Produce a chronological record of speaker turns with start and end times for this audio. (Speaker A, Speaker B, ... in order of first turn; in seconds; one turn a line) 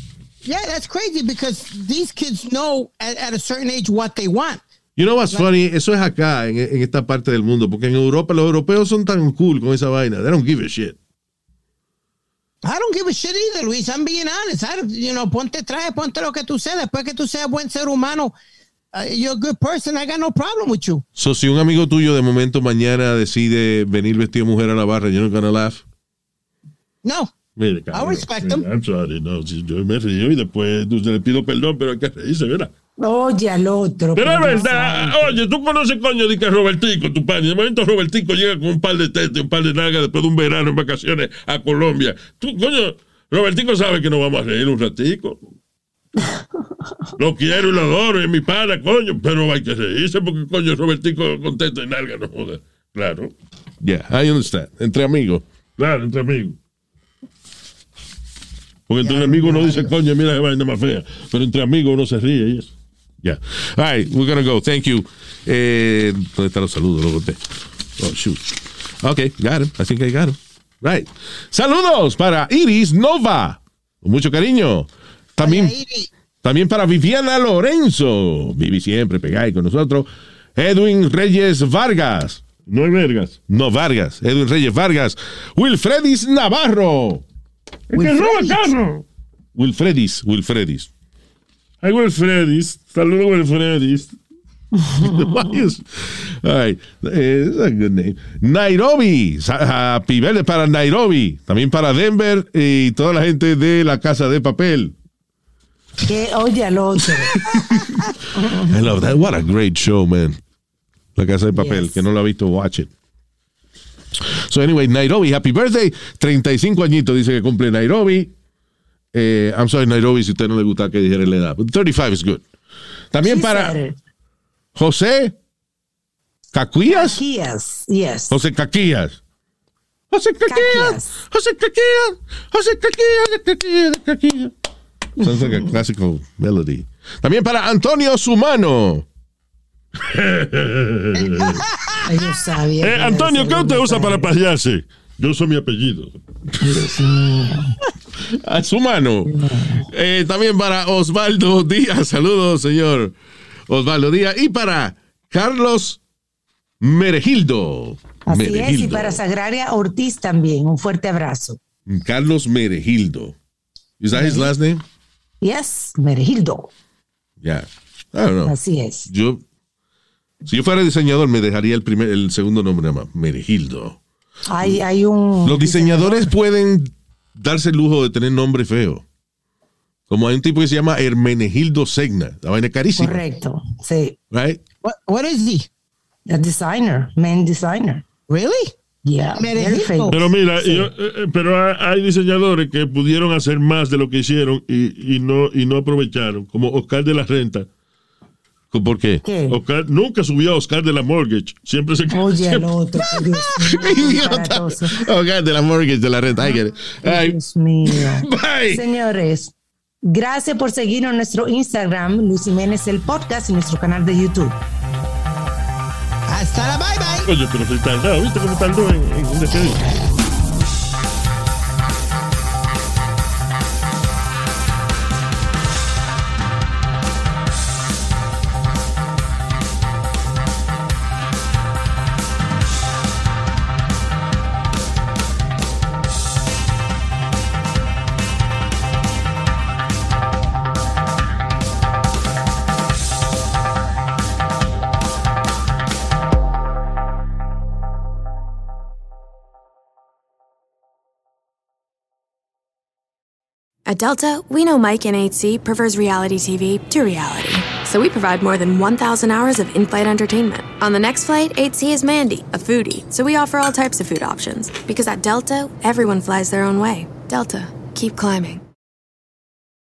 Speaker A: 0.4-4.6
Speaker B: 5.0-11.0
Speaker A: 12.6-18.3
Speaker A: 18.9-21.0
Speaker B: 21.2-25.8
Speaker A: 27.0-27.3
Speaker C: 27.6-32.7
Speaker A: 27.9-28.7
Speaker D: 33.0-35.4
Speaker C: 34.1-45.4
Speaker C: 47.2-53.3
Speaker B: 53.8-55.4
Speaker C: 55.8-56.6
Speaker C: 58.9-62.7
Speaker A: 59.0-60.0
Speaker B: 63.2-67.4
Speaker B: 68.0-75.7
Speaker A: 75.4-76.1
Speaker B: 76.4-82.4
Speaker C: 82.7-83.4
Speaker B: 83.5-87.2
Speaker C: 87.9-89.0
Speaker A: 87.9-88.6
Speaker B: 89.5-90.9
Speaker C: 91.8-94.1
Speaker B: 94.9-104.9
Speaker D: 106.0-107.4
Speaker B: 107.3-107.9
Speaker D: 108.3-108.7
Speaker B: 108.6-110.4
Speaker B: 111.2-112.9
Speaker D: 111.5-112.0
Speaker B: 114.1-118.3
Speaker B: 119.1-122.4
Speaker B: 123.1-123.8
Speaker D: 123.2-124.0
Speaker B: 124.7-125.3
Speaker B: 126.5-127.2
Speaker D: 126.8-128.3
Speaker B: 128.3-129.2
Speaker B: 130.1-134.5
Speaker D: 130.5-131.1
Speaker B: 135.2-139.1
Speaker C: 140.0-141.6
Speaker A: 141.1-142.3
Speaker D: 142.0-144.3
Speaker C: 142.8-146.1
Speaker D: 146.6-147.8
Speaker B: 148.3-153.1
Speaker D: 149.3-149.8
Speaker B: 153.7-156.0
Speaker B: 156.8-159.2
Speaker D: 158.2-161.6
Speaker B: 161.9-163.3
Speaker B: 164.0-164.8
Speaker D: 164.1-164.5
Speaker D: 165.4-166.7
Speaker B: 167.4-168.6
Speaker D: 168.4-169.1
Speaker B: 169.1-169.4
Speaker B: 170.4-174.0
Speaker D: 174.5-176.3
Speaker B: 175.4-179.0
Speaker B: 180.1-183.2
Speaker D: 183.0-184.2
Speaker B: 184.3-184.6
Speaker A: 184.8-185.7
Speaker D: 186.3-188.0
Speaker A: 188.3-188.7
Speaker D: 189.0-190.9
Speaker A: 189.3-190.2
Speaker C: 190.1-197.7
Speaker B: 198.7-199.2
Speaker D: 199.2-199.6
Speaker C: 199.5-202.7
Speaker D: 202.1-205.1
Speaker B: 203.7-207.4
Speaker D: 207.0-214.6
Speaker B: 207.9-208.8
Speaker A: 216.3-217.3
Speaker C: 217.2-219.9
Speaker E: 253.9-268.6